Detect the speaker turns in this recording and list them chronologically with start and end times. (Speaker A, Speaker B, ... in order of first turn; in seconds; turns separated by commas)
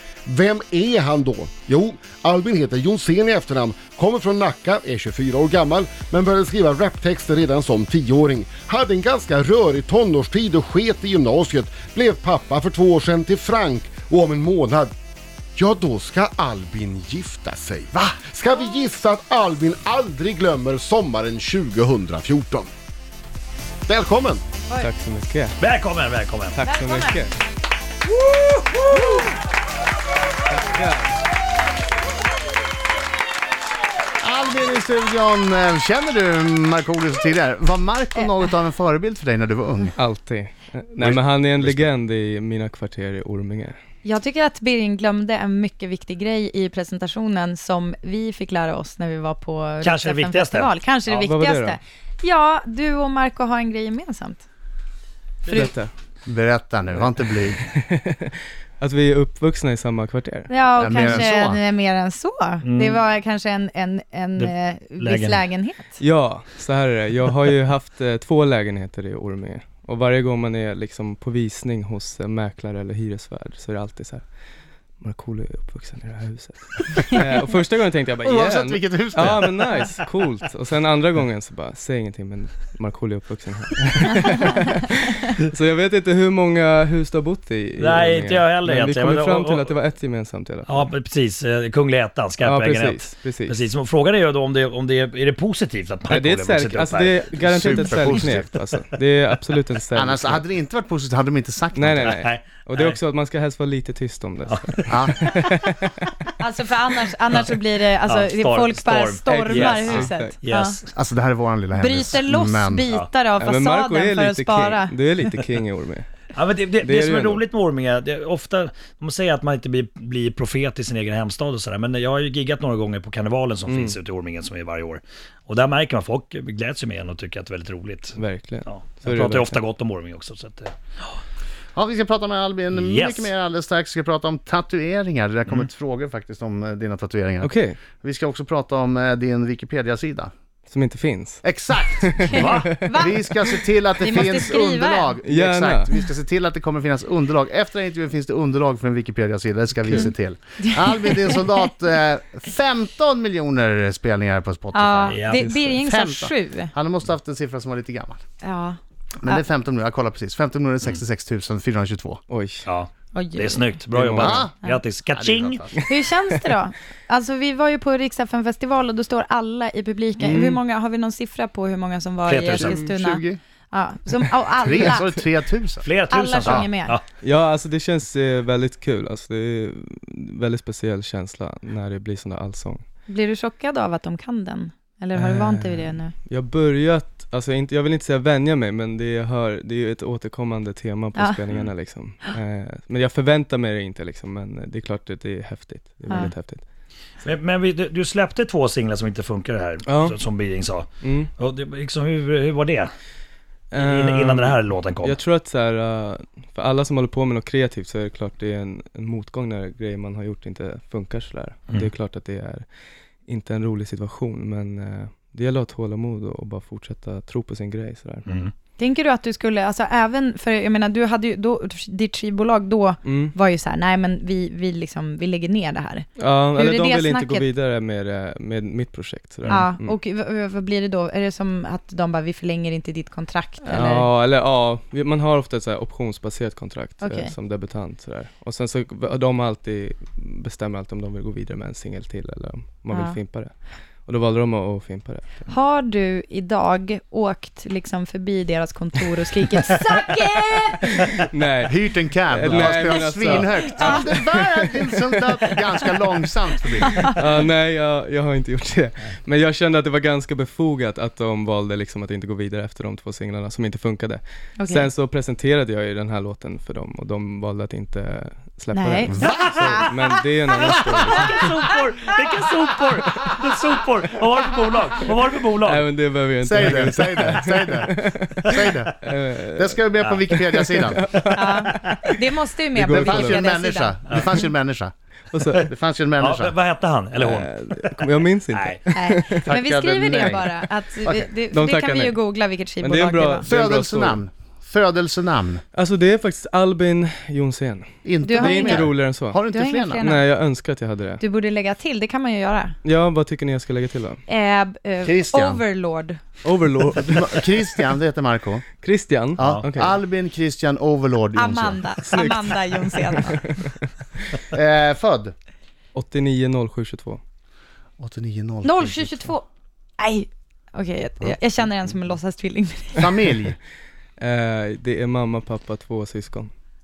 Speaker A: 0.3-14.9, Speaker A: 15.6-22.7, Speaker A: 23.9-24.4, Speaker B: 24.8-25.6, Speaker C: 25.6-26.6, Speaker B: 26.5-27.3, Speaker D: 26.6-27.3, Speaker E: 28.3-29.3, Speaker B: 30.5-31.1, Speaker E: 34.2-40.0, Speaker B: 40.0-43.8, Speaker C: 41.0-41.9, Speaker D: 44.0-54.4, Speaker C: 49.8-50.7, Speaker B: 51.1-51.8, Speaker B: 55.5-55.9, Speaker E: 56.3-57.6, Speaker B: 57.5-60.5, Speaker D: 60.5-66.0, Speaker E: 60.7-61.6, Speaker C: 62.6-63.0, Speaker C: 64.4-65.4, Speaker B: 66.0-74.2, Speaker B: 75.0-90.8, Speaker E: 78.2-80.0, Speaker C: 87.8-89.8, Speaker C: 90.7-98.4, Speaker B: 92.4-93.5, Speaker B: 96.1-100.5, Speaker E: 97.4-98.5, Speaker E: 99.9-102.2, Speaker B: 101.8-106.1, Speaker C: 102.0-103.0, Speaker C: 104.5-105.5, Speaker E: 104.9-105.2, Speaker D: 106.4-110.8, Speaker C: 108.0-110.9, Speaker B: 109.3-110.3, Speaker E: 110.9-112.8, Speaker D: 111.7-115.0, Speaker B: 113.4-116.1, Speaker C: 116.3-130.7, Speaker B: 116.8-117.4, Speaker B: 123.7-124.0, Speaker B: 128.2-129.6, Speaker E: 131.8-140.3, Speaker C: 132.7-133.3, Speaker B: 137.4-137.8, Speaker B: 140.7-142.9, Speaker E: 141.4-142.4, Speaker C: 142.3-142.7, Speaker D: 142.3-143.4, Speaker E: 142.9-158.2, Speaker D: 143.9-145.1, Speaker B: 145.2-146.0, Speaker D: 150.6-151.4, Speaker D: 154.7-156.7, Speaker C: 155.1-155.5, Speaker B: 155.4-155.8, Speaker D: 158.4-159.4, Speaker E: 159.2-162.2, Speaker B: 162.3-162.7, Speaker C: 162.7-165.6, Speaker D: 163.1-163.7, Speaker B: 163.9-164.5, Speaker E: 164.2-164.5, Speaker E: 165.1-165.8, Speaker D: 165.9-175.1, Speaker B: 170.2-170.6, Speaker C: 172.2-172.8, Speaker E: 172.6-173.4, Speaker E: 174.6-175.9, Speaker C: 175.8-177.0, Speaker D: 176.1-177.0, Speaker B: 177.2-182.8, Speaker D: 183.1-186.1, Speaker B: 185.2-196.6, Speaker D: 196.1-196.3, Speaker C: 197.2-202.9, Speaker B: 199.9-200.2, Speaker B: 201.0-201.3, Speaker B: 203.7-212.7, Speaker C: 203.8-205.2, Speaker B: 213.3-218.3, Speaker C: 218.3-218.5, Speaker D: 218.8-227.5, Speaker B: 223.1-223.3, Speaker B: 226.2-230.0, Speaker D: 229.5-234.1, Speaker B: 233.6-243.5, Speaker D: 237.0-237.3, Speaker B: 244.0-245.5, Speaker D: 245.5-251.1, Speaker B: 251.2-255.2, Speaker E: 251.6-257.1, Speaker D: 252.8-254.0, Speaker B: 257.1-271.5, Speaker D: 264.6-264.9, Speaker D: 268.7-270.2, Speaker E: 269.1-269.8, Speaker C: 270.6-275.9, Speaker B: 275.6-282.2, Speaker E: 276.4-281.1, Speaker D: 281.3-284.3, Speaker B: 282.8-283.4, Speaker E: 282.8-284.9, Speaker C: 284.1-284.3, Speaker B: 285.3-285.7, Speaker E: 285.6-286.6, Speaker C: 286.2-288.8, Speaker B: 287.2-289.6, Speaker D: 288.9-293.5, Speaker E: 289.5-290.5, Speaker B: 290.2-290.5, Speaker E: 291.0-291.3, Speaker B: 291.5-292.2, Speaker B: 292.8-294.2, Speaker E: 293.4-295.6, Speaker B: 295.7-299.4, Speaker E: 298.1-300.1, Speaker D: 298.2-300.3, Speaker B: 300.0-301.2, Speaker D: 301.2-302.8, Speaker B: 302.8-304.2, Speaker D: 304.3-306.2, Speaker E: 305.1-305.6, Speaker B: 306.4-307.6, Speaker E: 307.0-308.6, Speaker B: 308.8-310.0, Speaker E: 309.4-311.8, Speaker D: 311.4-313.4, Speaker B: 312.1-313.9, Speaker E: 314.5-315.3, Speaker B: 315.9-317.2, Speaker E: 318.0-319.3, Speaker D: 318.6-319.4, Speaker D: 320.0-323.2, Speaker E: 323.0-323.6, Speaker B: 324.2-326.5